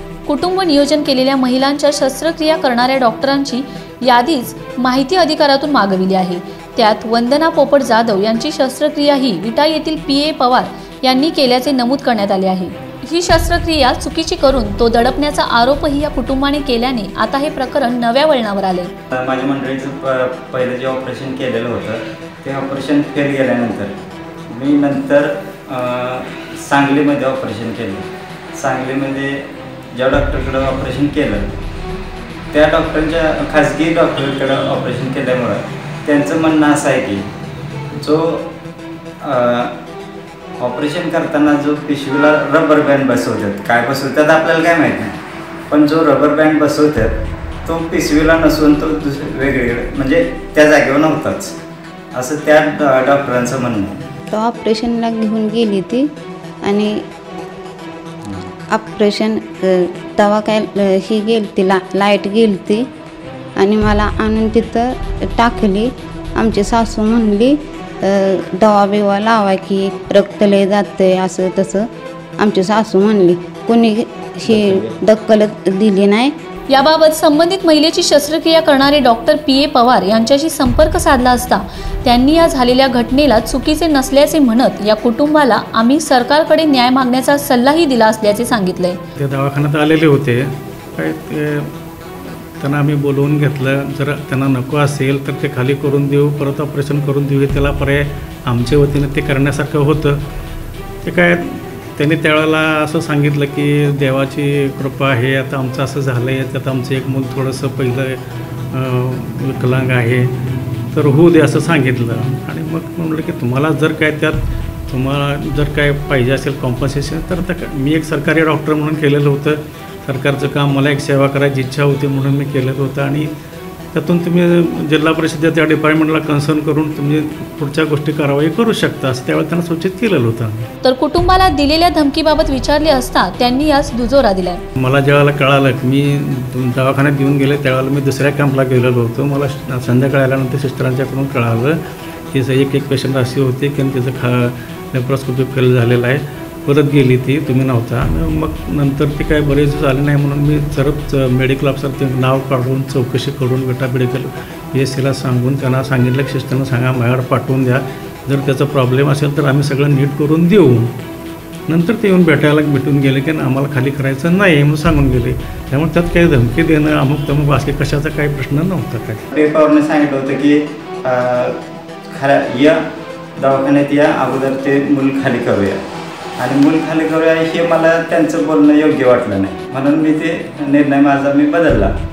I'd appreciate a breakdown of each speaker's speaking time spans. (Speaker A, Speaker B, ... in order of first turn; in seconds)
Speaker A: 0.2-18.9, 76.7-89.0, 130.8-134.6
Speaker B: 19.1-23.9, 24.5-31.5, 32.5-37.3, 38.0-38.5, 39.2-39.7, 40.6-45.1, 45.7-47.1, 47.6-51.5, 52.1-54.0, 58.2-58.5, 74.5-75.0, 169.3-171.6, 172.1-172.8, 173.4-175.8, 176.4-181.9
Speaker C: 54.3-56.1, 56.6-56.9, 58.7-62.9, 63.6-71.9, 72.4-76.3
Speaker D: 89.2-91.7, 92.6-100.2, 101.0-108.2, 108.7-110.3, 110.9-123.3, 123.9-130.7, 134.8-141.8, 142.3-160.9, 161.7-169.2